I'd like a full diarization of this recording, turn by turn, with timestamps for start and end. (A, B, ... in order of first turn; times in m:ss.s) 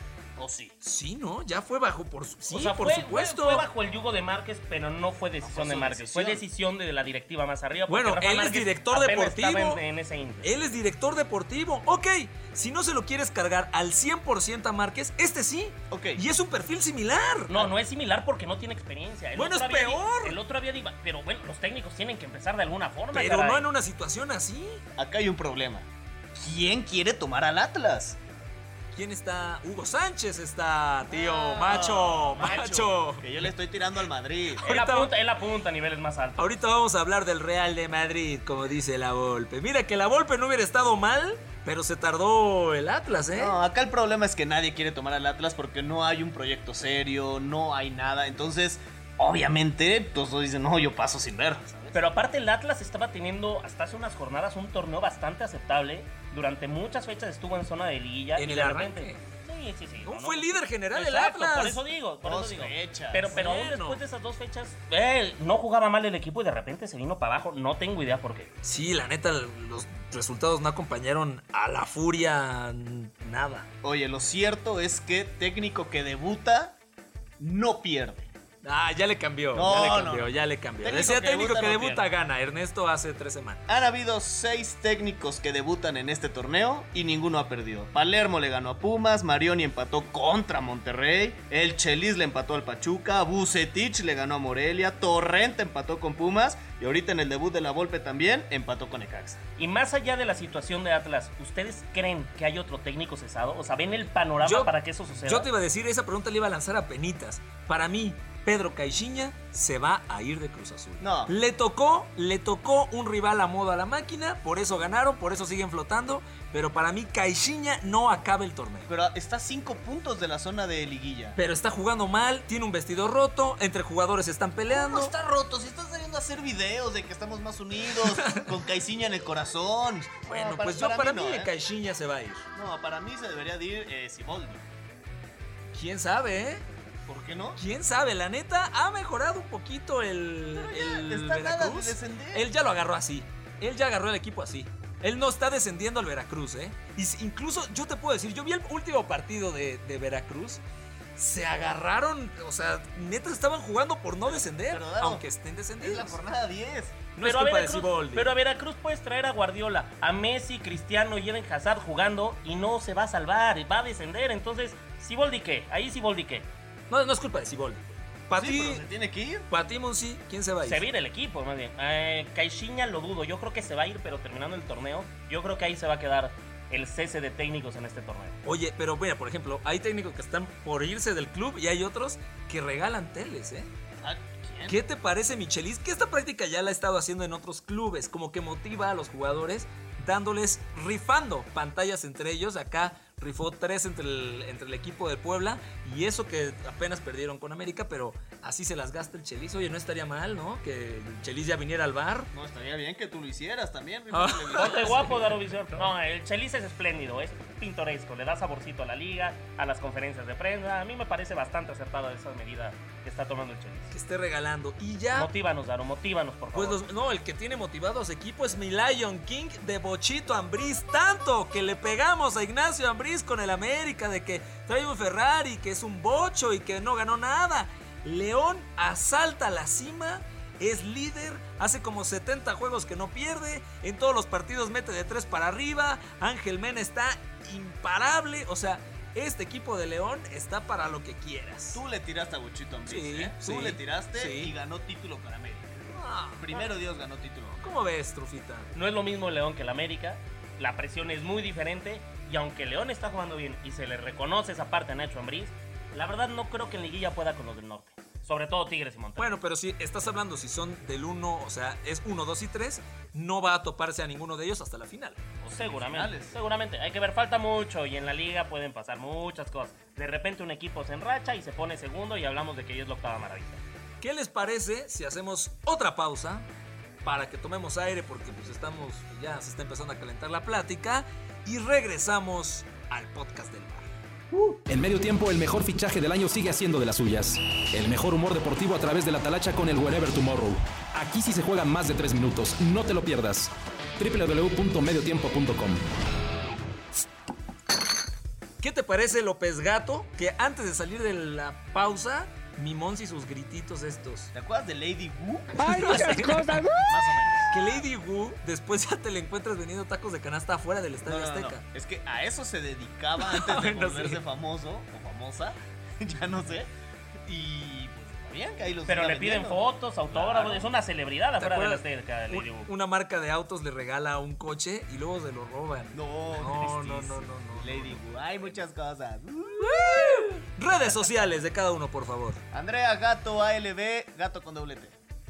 0:00.4-0:00.7 A
0:00.8-0:03.7 B
0:02.5-0:10.5 C
0:05.4-0:06.4 A
0:07.9-0:09.8 B
0:10.4-0:17.5 B
0:15.9-0:16.2 A
0:17.5-0:23.7 C
0:19.4-0:20.4 B
0:23.1-0:24.8 B
0:25.0-0:28.2 A
0:28.9-0:33.4 B
0:31.1-0:34.7 A
0:34.6-0:35.1 B
0:34.6-0:36.5 C
0:36.4-0:43.6 B
0:43.4-0:52.0 A
0:51.9-1:08.5 C
0:58.4-0:59.2 B
1:00.0-1:01.8 B
1:02.2-1:03.3 A
1:03.3-1:04.0 B
1:08.6-1:13.7 B
1:13.8-1:16.8 A
1:17.4-1:18.3 A
1:18.6-1:23.8 B
1:19.5-1:22.0 A
1:23.7-1:39.4 A
1:39.6-1:45.5 C
1:44.4-1:58.9 B
1:51.0-1:51.3 A
1:58.9-2:01.4 A
2:01.4-2:05.1 B
2:04.7-2:11.5 A
2:08.2-2:08.5 B
2:10.3-2:12.5 B
2:12.5-2:14.6 A
2:15.7-2:16.6 B
2:17.1-2:17.6 A
2:17.6-2:30.6 B
2:20.6-2:22.5 A
2:31.2-2:36.2 B
2:34.2-2:35.2 A
2:35.8-2:37.0 A
2:37.2-2:38.3 B
2:37.2-2:46.5 C
2:46.9-2:48.8 B
2:48.3-2:49.5 A
2:49.5-2:50.9 B
2:50.6-2:58.4 C
2:58.4-3:03.7 B
3:04.0-3:04.8 A
3:04.7-3:22.3 B
3:22.3-3:25.2 A
3:24.1-3:25.9 B
3:24.5-3:33.9 C
3:33.9-3:35.3 B
3:35.1-3:36.8 C
3:36.5-4:01.8 B
4:01.7-4:07.7 A
4:02.9-4:04.6 B
4:05.9-4:06.7 B
4:07.6-4:08.7 B
4:08.7-4:19.4 C
4:19.2-4:25.2 B
4:25.4-4:26.4 A
4:25.4-4:33.6 C
4:34.0-4:36.5 B
4:37.0-4:43.9 B
4:44.3-4:55.8 D
4:58.6-5:04.3 B
5:04.3-5:07.5 A
5:05.7-5:06.6 B
5:07.5-5:11.6 B
5:11.0-5:16.7 A
5:13.2-5:14.2 B
5:17.3-5:20.7 A
5:18.9-5:22.7 C
5:21.4-5:28.5 B
5:25.9-5:31.2 A
5:29.6-5:32.4 B
5:32.5-5:35.0 A